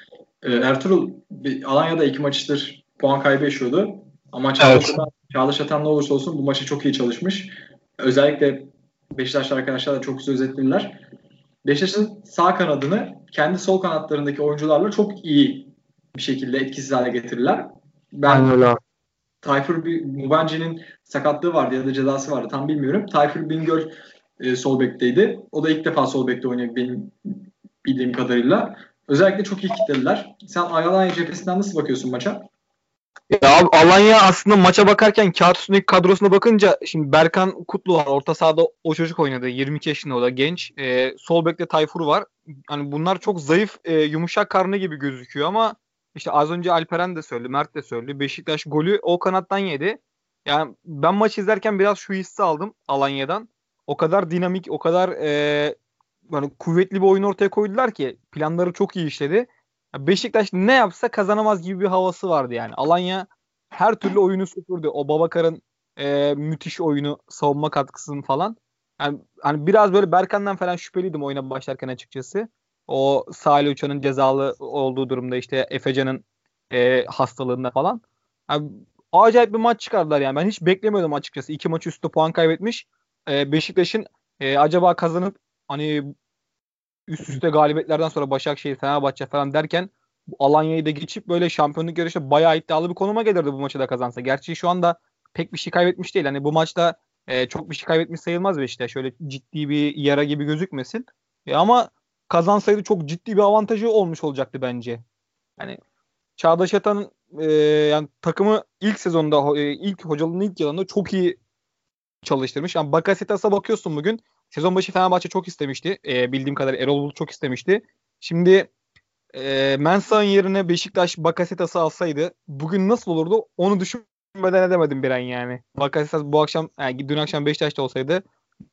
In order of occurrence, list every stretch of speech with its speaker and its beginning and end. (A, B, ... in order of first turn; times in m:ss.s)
0:00.4-0:11.0 A
0:04.6-0:05.0 B
0:11.6-0:18.5 A
0:18.2-0:18.8 B
0:19.4-0:32.5 A
0:33.3-0:55.8 B
0:56.3-1:26.1 B
1:27.1-1:45.0 B
1:46.4-1:51.4 B
1:52.2-1:58.7 B
1:59.3-2:08.2 B